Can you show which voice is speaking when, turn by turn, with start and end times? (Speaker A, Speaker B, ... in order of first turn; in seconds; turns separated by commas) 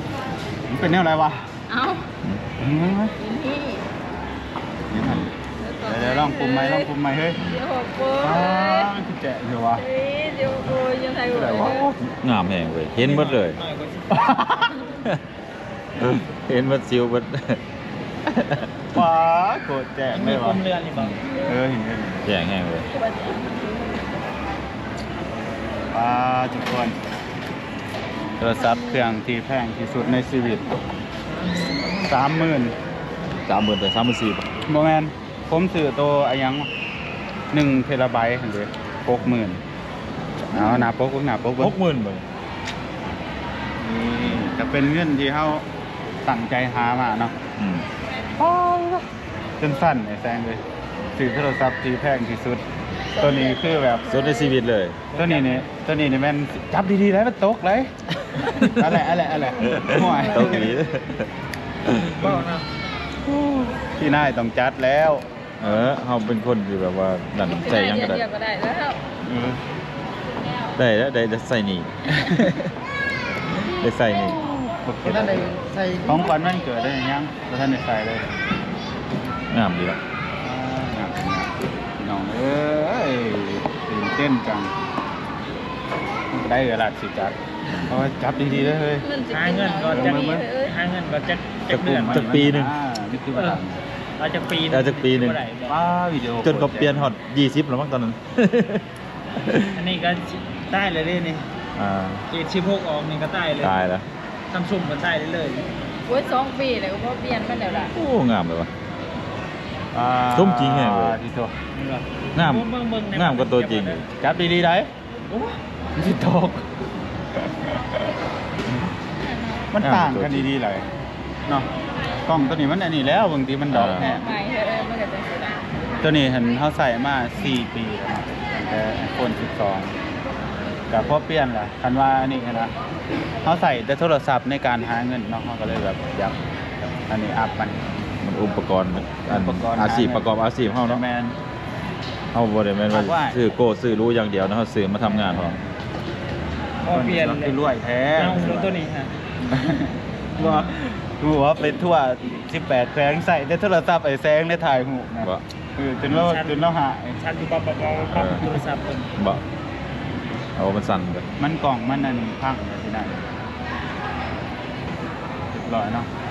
Speaker A: 0.7-1.5, Speaker B: 1.7-2.1, Speaker A: 2.6-3.1, Speaker B: 3.2-3.8, Speaker A: 4.9-5.3, Speaker C: 5.0-5.3, Speaker B: 5.6-8.9, Speaker A: 5.9-7.4, Speaker A: 8.2-9.8, Speaker B: 9.8-11.9, Speaker A: 11.3-11.9, Speaker C: 12.0-13.6, Speaker D: 13.0-14.2, Speaker A: 14.1-14.7, Speaker C: 16.0-17.6, Speaker C: 18.3-18.7, Speaker A: 18.9-20.6, Speaker D: 20.1-21.2, Speaker B: 21.2-21.6, Speaker A: 21.4-22.2, Speaker C: 22.2-22.9, Speaker B: 22.9-24.2, Speaker A: 25.9-27.0, Speaker A: 28.4-30.7, Speaker B: 28.6-29.0, Speaker A: 31.9-32.7, Speaker C: 33.5-34.4, Speaker A: 34.7-36.7, Speaker A: 37.5-39.6, Speaker A: 40.5-41.8, Speaker C: 41.6-42.2, Speaker A: 43.8-45.7, Speaker C: 44.3-44.5, Speaker A: 46.3-47.4, Speaker C: 47.6-47.9, Speaker A: 48.4-49.0, Speaker A: 49.6-50.6, Speaker A: 51.2-52.6, Speaker B: 53.1-54.6, Speaker A: 53.1-54.1, Speaker C: 54.0-55.0, Speaker D: 55.1-55.7, Speaker A: 55.1-57.9, Speaker B: 58.4-58.7, Speaker A: 58.6-60.8, Speaker C: 59.6-61.3, Speaker B: 59.7-60.6, Speaker C: 61.9-62.4, Speaker D: 62.2-62.7, Speaker A: 63.4-65.2, Speaker C: 65.6-68.2, Speaker B: 67.5-69.0, Speaker A: 69.2-69.6, Speaker C: 70.8-72.7, Speaker A: 72.1-72.5, Speaker C: 73.6-74.4, Speaker A: 74.8-75.5, Speaker D: 75.1-76.3, Speaker A: 76.1-78.3, Speaker C: 79.5-80.0, Speaker A: 80.4-84.7, Speaker A: 86.3-87.4, Speaker A: 87.9-89.0, Speaker B: 88.5-90.8, Speaker D: 89.3-92.3, Speaker A: 89.9-90.4, Speaker C: 91.7-92.7, Speaker A: 91.8-93.8, Speaker D: 93.3-93.6, Speaker D: 94.2-95.8, Speaker C: 94.7-95.4, Speaker A: 95.7-97.1, Speaker C: 96.4-98.9, Speaker C: 99.4-99.8, Speaker D: 99.7-101.5, Speaker C: 101.8-102.2, Speaker D: 102.3-103.8, Speaker C: 103.6-104.1, Speaker D: 104.5-105.7, Speaker B: 106.1-107.9, Speaker C: 107.8-108.7, Speaker A: 109.9-111.5, Speaker C: 110.3-111.2, Speaker D: 111.8-114.1, Speaker C: 112.3-114.1, Speaker A: 114.2-114.9, Speaker D: 115.3-115.6, Speaker A: 116.0-116.7, Speaker B: 119.3-119.6, Speaker A: 119.7-120.9, Speaker C: 119.8-120.5, Speaker A: 122.3-124.2, Speaker C: 123.7-124.1, Speaker B: 123.9-125.6, Speaker A: 126.0-130.0, Speaker A: 130.9-132.7, Speaker A: 133.4-136.4, Speaker A: 136.9-137.8, Speaker C: 138.2-141.0, Speaker A: 139.3-141.4, Speaker C: 142.3-145.6, Speaker A: 142.9-143.4, Speaker A: 145.0-145.6, Speaker D: 146.8-147.6, Speaker A: 146.9-148.7, Speaker D: 148.2-149.1, Speaker C: 148.2-148.6, Speaker A: 149.5-157.2, Speaker C: 150.4-150.8, Speaker D: 156.1-159.1, Speaker C: 158.1-158.5, Speaker C: 159.2-159.4, Speaker C: 160.6-161.2, Speaker A: 161.4-163.3, Speaker A: 165.5-166.1